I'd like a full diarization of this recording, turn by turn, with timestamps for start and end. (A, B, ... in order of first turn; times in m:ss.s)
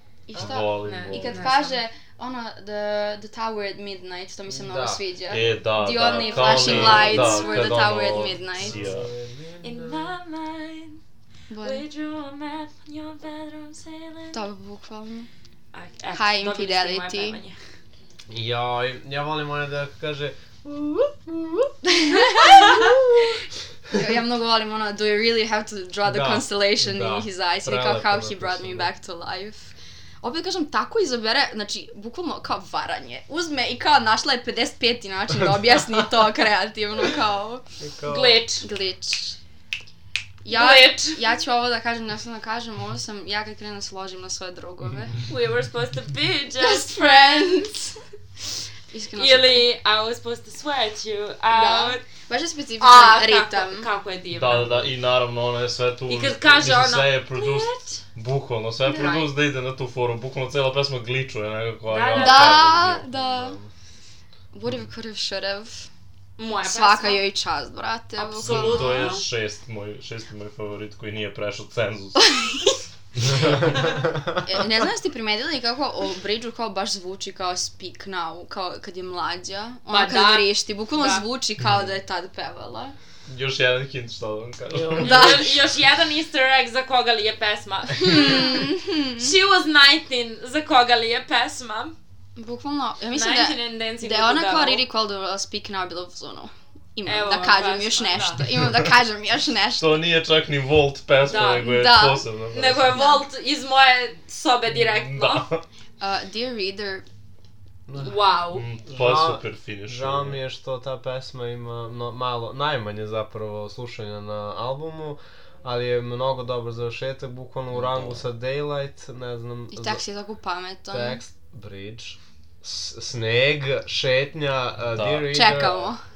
0:00.3-0:08.8 A
0:00.4-0:01.5 B
0:00.8-0:01.8 C
0:04.5-0:05.0 D
0:05.3-0:09.1 B
0:06.2-0:07.7 C
0:06.6-0:07.3 D
0:08.6-0:10.1 D
0:09.6-0:11.0 C
0:11.5-0:11.8 A
0:11.6-0:14.4 C
0:14.3-0:15.3 A
0:15.7-0:17.6 C
0:16.1-0:17.4 A
0:18.3-0:21.8 D
0:21.9-0:22.9 A
0:22.7-0:23.2 D
0:23.9-0:37.6 A
0:26.1-0:28.9 D
0:37.8-0:38.4 D
0:38.1-0:38.7 C
0:38.6-0:39.4 A
0:40.4-0:45.2 A
0:40.5-0:41.2 C
0:45.3-0:47.0 C
0:46.6-0:48.0 A
0:48.9-0:49.6 A
0:49.2-0:52.0 C
0:51.5-0:53.9 A
0:52.8-0:54.7 C
0:54.3-1:03.0 B
0:54.5-0:54.9 D
0:56.1-0:58.0 C
0:58.9-0:59.3 C
1:01.9-1:02.7 C
1:02.2-1:03.6 A
1:03.2-1:03.7 D
1:04.5-1:05.9 A
1:06.4-1:07.2 C
1:06.6-1:09.2 A
1:08.2-1:09.3 C
1:08.4-1:12.6 B
1:12.2-1:12.8 A
1:13.2-1:14.1 B
1:14.4-1:22.9 A
1:19.9-1:21.2 C
1:23.3-1:25.5 B
1:24.9-1:32.0 C
1:25.0-1:25.6 A
1:28.0-1:29.3 A
1:32.4-1:40.0 A
1:33.1-1:34.8 C
1:37.1-1:38.5 C
1:39.8-1:43.0 B
1:41.3-1:41.7 C
1:41.6-1:42.3 A
1:42.5-1:45.5 C
1:42.9-1:43.3 A
1:44.9-1:45.6 B
1:46.0-1:47.0 A
1:47.9-1:48.2 D
1:48.0-1:48.6 C
1:48.5-1:50.4 B
1:48.9-2:00.0 D
1:57.7-1:58.2 B
1:59.7-2:01.2 A
2:00.9-2:05.9 D
2:04.9-2:05.7 B
2:05.3-2:06.0 A